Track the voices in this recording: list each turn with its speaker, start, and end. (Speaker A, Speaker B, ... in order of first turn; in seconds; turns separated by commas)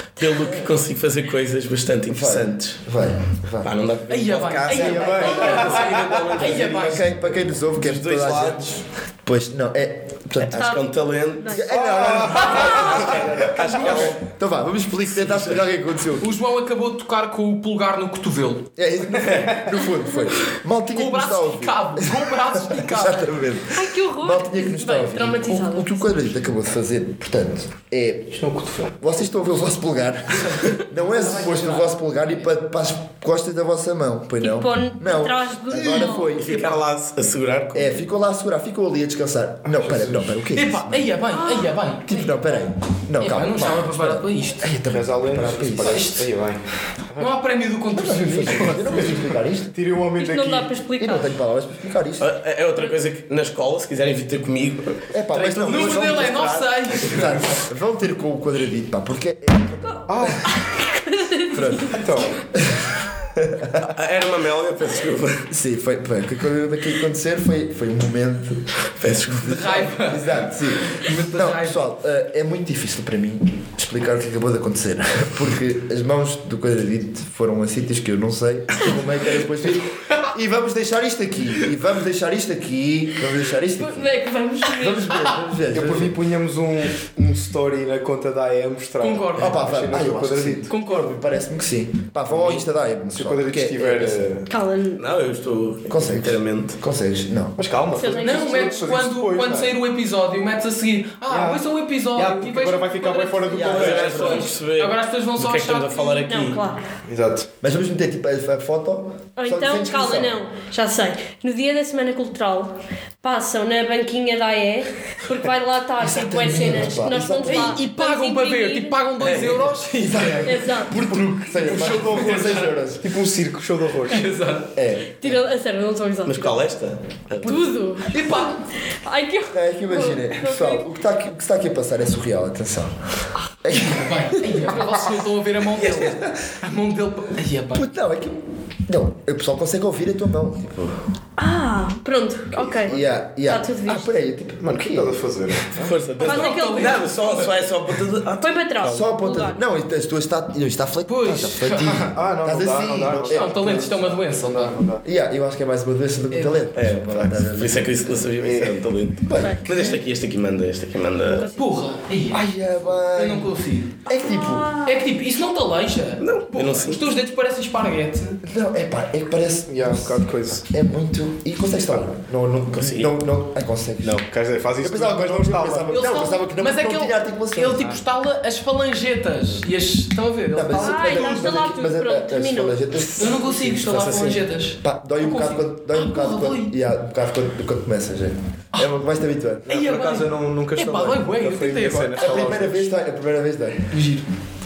Speaker A: 0.2-2.8, Speaker B: 2.1-3.7, Speaker A: 3.6-7.1, Speaker C: 4.1-7.1, Speaker D: 4.7-6.6, Speaker B: 4.7-5.3, Speaker B: 6.7-10.8, Speaker A: 7.7-8.7, Speaker A: 10.4-11.7, Speaker E: 10.5-10.8, Speaker E: 11.4-11.7, Speaker B: 11.4-16.3, Speaker D: 11.7-13.2, Speaker E: 12.4-13.1, Speaker A: 12.4-14.2, Speaker A: 15.2-15.6, Speaker C: 16.2-18.7, Speaker B: 18.8-28.4, Speaker C: 20.9-23.4, Speaker E: 23.7-26.1, Speaker D: 28.3-29.0, Speaker B: 29.0-36.6, Speaker C: 30.3-32.0, Speaker E: 34.4-36.4, Speaker A: 36.4-38.0, Speaker B: 37.7-41.1, Speaker D: 39.7-40.4, Speaker C: 40.5-42.6, Speaker E: 41.3-41.8, Speaker B: 42.1-46.1, Speaker C: 43.2-44.7, Speaker D: 44.9-47.3, Speaker C: 45.8-46.3, Speaker C: 47.2-49.2, Speaker B: 48.0-49.7, Speaker D: 48.2-50.7, Speaker E: 50.2-51.3, Speaker B: 51.0-52.3, Speaker A: 52.2-56.0, Speaker B: 55.1-60.4, Speaker C: 55.5-57.6, Speaker D: 60.1-60.5, Speaker E: 60.6-61.9, Speaker B: 61.5-62.0, Speaker D: 61.9-62.4, Speaker B: 62.5-63.8, Speaker A: 63.8-65.5, Speaker B: 65.5-68.7, Speaker A: 69.0-69.9, Speaker B: 69.4-84.1, Speaker C: 69.4-71.8, Speaker E: 83.8-85.3, Speaker B: 84.7-86.2, Speaker D: 85.7-90.7, Speaker C: 89.0-89.6, Speaker B: 89.4-94.2, Speaker C: 90.7-91.2, Speaker D: 93.1-94.5, Speaker E: 94.5-95.0, Speaker A: 95.0-96.8, Speaker B: 95.9-97.6, Speaker D: 97.6-99.7, Speaker E: 98.0-98.8, Speaker C: 98.2-106.2, Speaker D: 101.3-104.5, Speaker B: 103.5-104.5, Speaker A: 103.6-106.6, Speaker E: 106.2-106.8, Speaker D: 107.1-107.5, Speaker B: 107.6-110.4, Speaker E: 109.4-119.0, Speaker B: 116.0-117.8, Speaker C: 117.4-122.7, Speaker A: 119.2-119.6, Speaker B: 120.0-123.2, Speaker E: 120.4-121.0, Speaker D: 123.0-124.3, Speaker C: 124.1-124.7, Speaker B: 124.8-125.4, Speaker E: 125.2-126.6, Speaker A: 126.2-127.7, Speaker E: 127.4-130.8, Speaker C: 128.1-128.6, Speaker B: 129.5-133.0, Speaker B: 133.6-134.6, Speaker C: 133.7-137.9, Speaker A: 135.8-136.2, Speaker B: 137.7-141.0, Speaker E: 141.4-144.1, Speaker B: 142.8-145.2, Speaker D: 144.6-146.0, Speaker A: 145.8-149.1, Speaker C: 146.2-147.6, Speaker E: 146.2-147.0, Speaker E: 148.4-149.6, Speaker B: 148.9-153.8, Speaker C: 151.1-152.2, Speaker D: 152.1-155.0, Speaker C: 153.2-154.8, Speaker B: 155.0-158.0, Speaker C: 156.3-156.6, Speaker A: 156.7-161.5, Speaker D: 158.4-158.8, Speaker B: 159.2-159.8, Speaker E: 159.3-159.7, Speaker E: 161.3-161.6, Speaker C: 161.5-164.0, Speaker B: 162.3-163.5, Speaker B: 164.1-164.8, Speaker E: 164.2-165.0, Speaker C: 164.8-168.4, Speaker A: 166.2-167.0, Speaker B: 168.4-174.2, Speaker D: 169.7-170.7, Speaker A: 172.7-173.1, Speaker D: 174.0-176.0, Speaker B: 174.8-178.0, Speaker C: 175.9-181.6, Speaker B: 180.5-184.2, Speaker E: 180.8-182.8, Speaker C: 183.2-186.7, Speaker A: 183.8-184.4, Speaker B: 184.8-189.7, Speaker D: 189.7-192.9, Speaker C: 189.7-192.7, Speaker B: 192.2-193.9, Speaker C: 193.9-194.3